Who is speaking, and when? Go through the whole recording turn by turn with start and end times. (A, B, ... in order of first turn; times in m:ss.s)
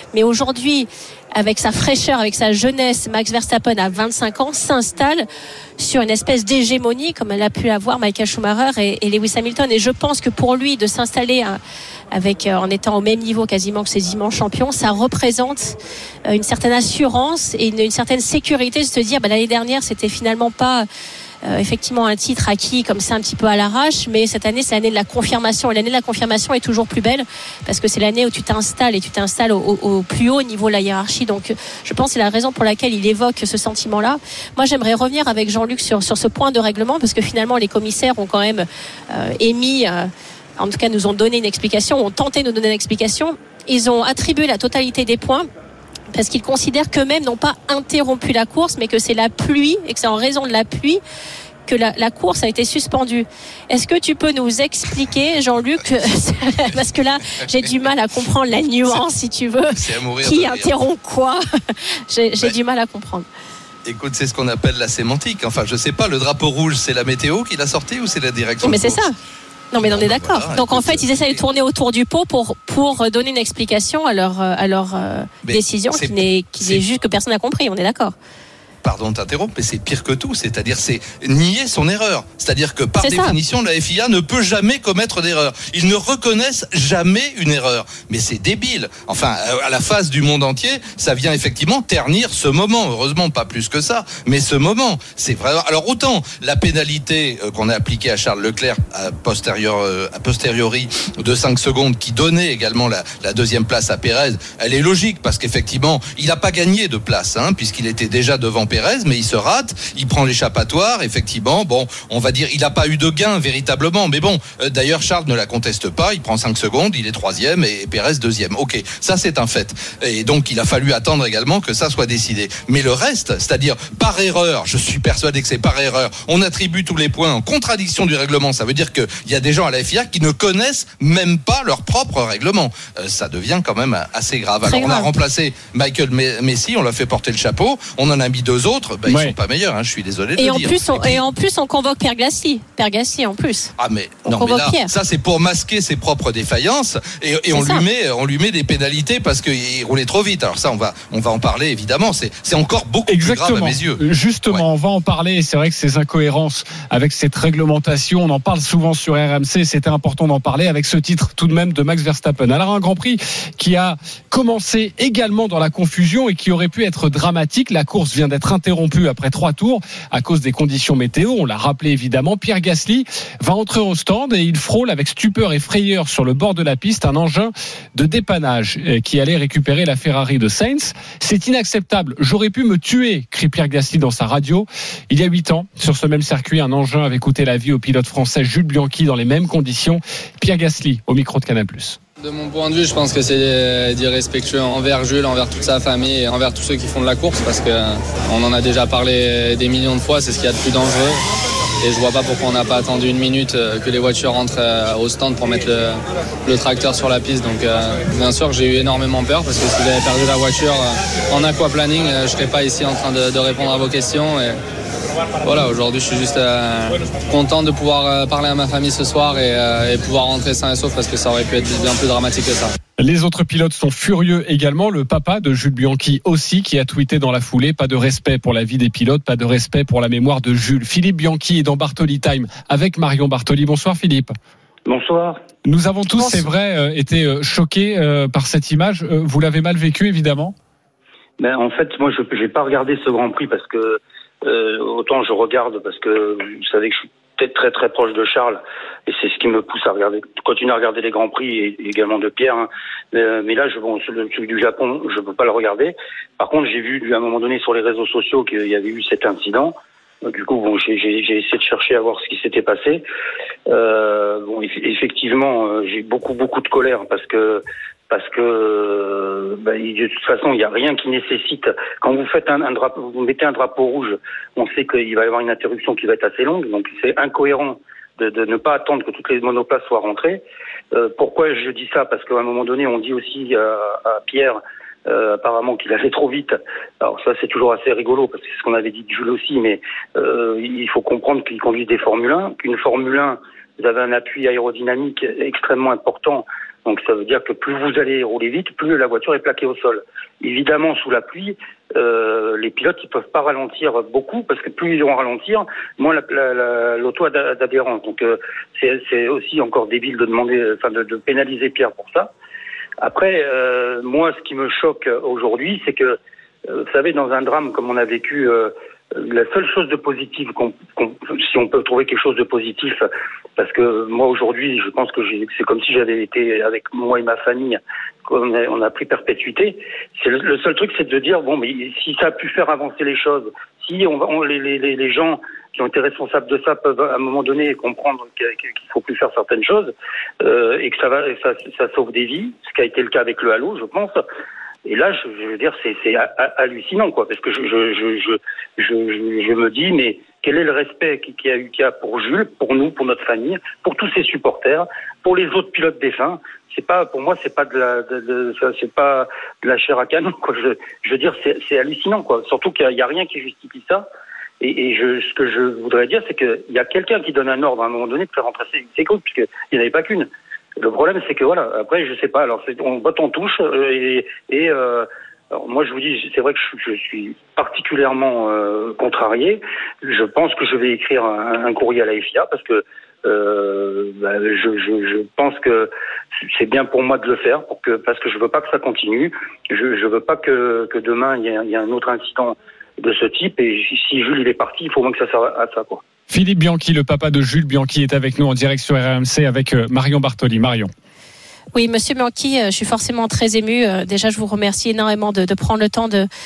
0:00.1-0:05.2 A
0:05.8-0:11.6 A
0:12.1-0:20.9 A
0:21.4-0:45.5 A
0:46.1-0:51.0 A
0:51.7-1:03.3 A
0:59.7-1:00.7 B
1:03.9-1:09.1 B
1:08.6-1:09.1 A
1:09.7-1:18.1 A
1:09.8-1:11.4 B
1:15.4-1:16.8 B
1:18.8-2:21.2 B
1:23.0-1:23.4 A
2:14.6-2:15.1 A
2:19.1-2:19.4 C
2:20.4-2:23.7 A
2:23.8-2:34.6 B
2:24.3-2:24.9 A
2:27.5-2:27.8 A
2:33.1-3:12.0 C
3:12.2-3:21.2 D
3:21.8-3:34.6 D
3:35.4-3:42.7 D
3:43.0-3:54.4 C
3:54.9-3:55.4 E
3:55.6-4:00.6 C
4:01.4-4:19.7 E
4:20.2-4:23.0 E
4:23.7-5:12.3 E
5:13.0-5:23.0 E
5:23.6-5:44.2 E
5:44.8-6:04.0 E
6:04.6-6:25.9 E
6:26.5-6:36.0 E
6:36.3-6:40.9 C
6:41.7-6:46.3 A